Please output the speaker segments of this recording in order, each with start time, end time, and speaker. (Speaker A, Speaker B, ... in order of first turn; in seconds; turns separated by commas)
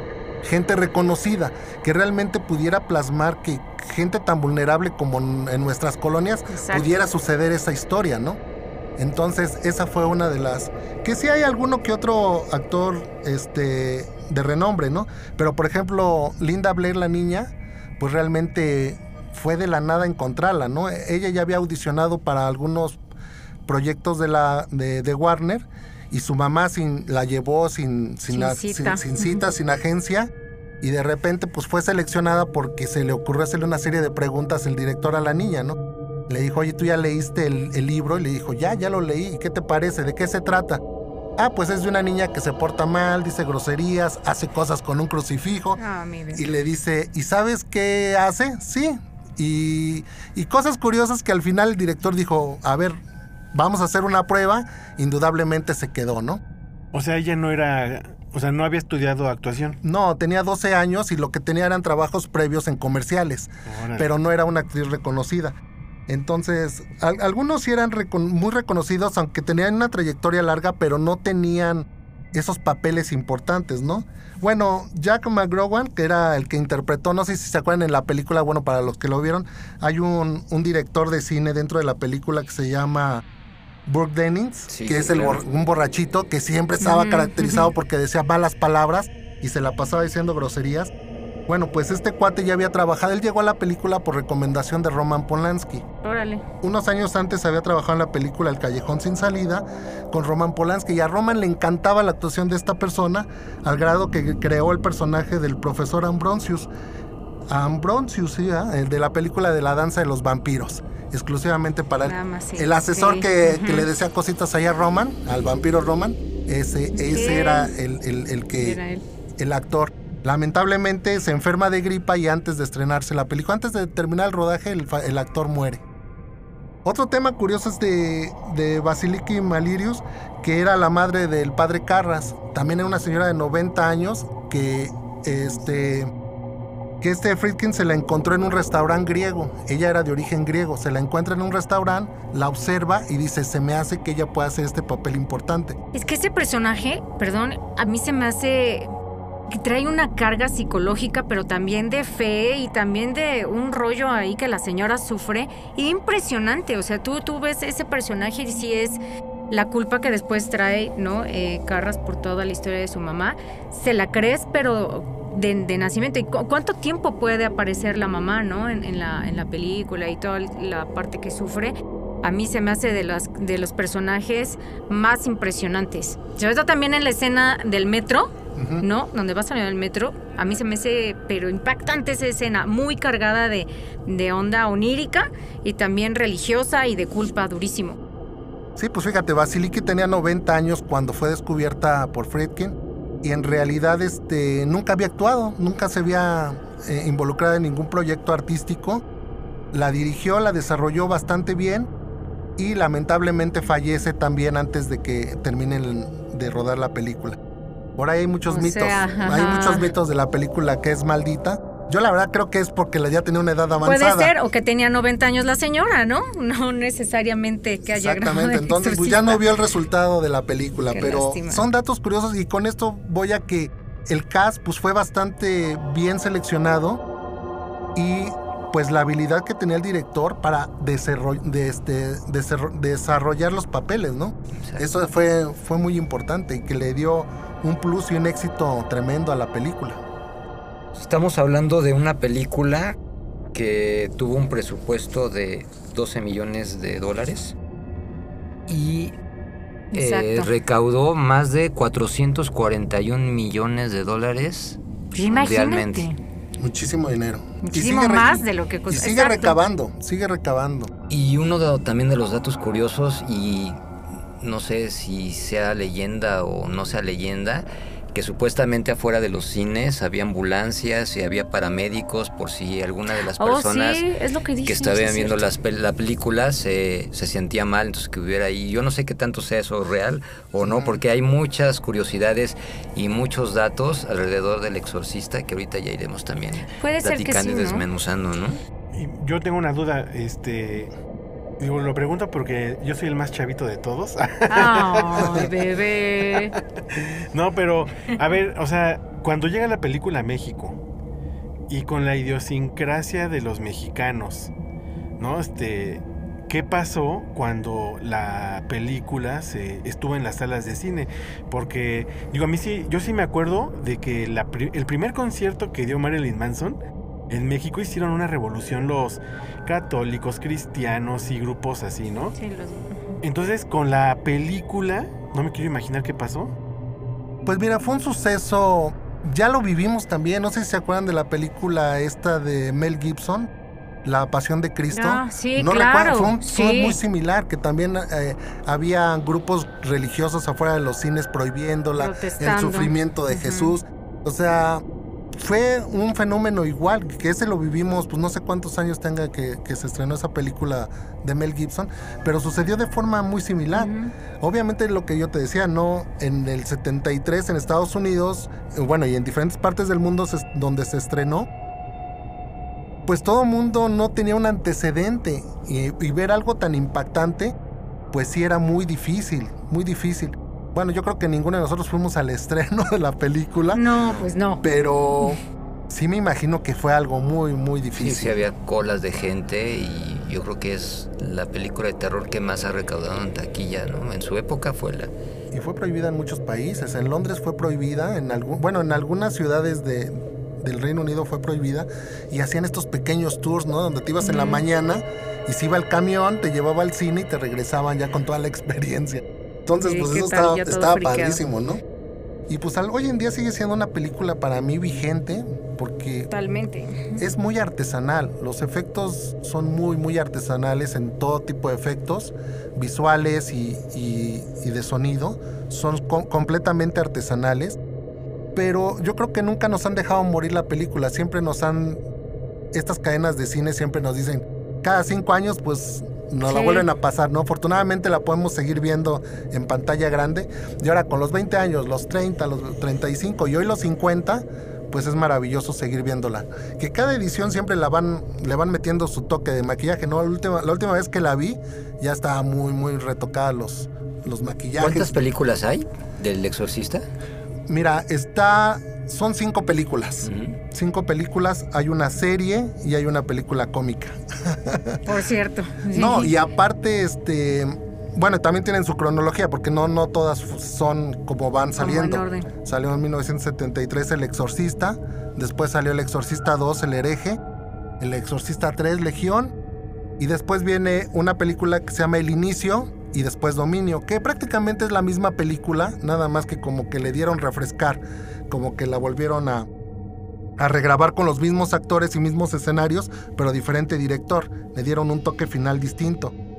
Speaker A: 0.4-8.4, Speaker B: 6.5-6.9, Speaker A: 9.0-23.0, Speaker A: 23.7-30.3, Speaker B: 28.3-29.4, Speaker A: 30.8-35.8, Speaker A: 36.3-40.8, Speaker A: 41.4-45.8, Speaker B: 45.8-46.4, Speaker A: 46.3-53.0, Speaker A: 53.5-56.4, Speaker C: 56.9-59.8, Speaker A: 59.8-65.6, Speaker C: 63.7-64.1, Speaker A: 66.1-83.2, Speaker A: 83.9-90.9, Speaker D: 84.7-85.4, Speaker B: 86.8-87.7, Speaker A: 91.5-95.8, Speaker B: 96.0-96.4, Speaker A: 96.6-106.7, Speaker A: 107.5-118.8, Speaker B: 112.0-113.9, Speaker B: 117.0-117.7, Speaker B: 118.6-119.0, Speaker A: 119.4-125.8, Speaker A: 126.8-136.1, Speaker A: 137.0-145.8, Speaker B: 145.9-148.9, Speaker B: 149.5-159.0, Speaker B: 159.5-178.3, Speaker A: 178.6-178.8, Speaker B: 178.8-188.0, Speaker A: 188.8-199.0, Speaker A: 199.7-201.9, Speaker A: 202.6-207.4, Speaker A: 208.0-214.3, Speaker B: 208.5-209.9, Speaker B: 213.8-219.4, Speaker A: 217.9-227.0, Speaker B: 220.9-221.6, Speaker A: 227.9-240.0, Speaker D: 234.6-234.8, Speaker D: 240.9-243.0, Speaker D: 243.5-247.6, Speaker D: 248.7-249.2, Speaker B: 249.9-250.5, Speaker D: 249.9-256.1, Speaker B: 255.1-256.2, Speaker A: 256.6-260.9, Speaker B: 257.6-259.6, Speaker D: 261.1-263.8, Speaker D: 264.4-274.0, Speaker B: 273.4-275.4, Speaker D: 274.6-288.6, Speaker A: 280.6-281.0, Speaker B: 286.8-287.8, Speaker C: 288.9-290.9, Speaker C: 291.6-295.5, Speaker B: 294.5-296.6, Speaker C: 297.3-300.8, Speaker C: 301.7-304.5, Speaker C: 305.2-316.8, Speaker C: 317.3-322.4, Speaker B: 322.4-323.2, Speaker C: 323.2-326.5, Speaker A: 327.4-333.5, Speaker A: 334.0-361.5, Speaker B: 334.9-337.0, Speaker B: 342.0-343.8, Speaker B: 353.8-354.1, Speaker A: 363.1-367.6, Speaker A: 368.1-373.8, Speaker B: 373.7-374.6, Speaker A: 374.6-378.4, Speaker D: 378.0-385.1, Speaker A: 385.5-401.8, Speaker B: 394.2-394.6, Speaker B: 399.8-401.4, Speaker A: 402.5-406.3, Speaker B: 406.3-407.2, Speaker A: 407.2-417.8, Speaker A: 418.6-422.0, Speaker A: 422.7-445.2, Speaker B: 426.5-426.9, Speaker D: 444.8-447.1, Speaker A: 447.7-455.0, Speaker D: 450.2-450.6, Speaker B: 455.1-456.3, Speaker A: 455.9-467.4, Speaker B: 461.8-462.5, Speaker A: 468.0-469.6, Speaker A: 470.2-479.7, Speaker A: 480.6-486.4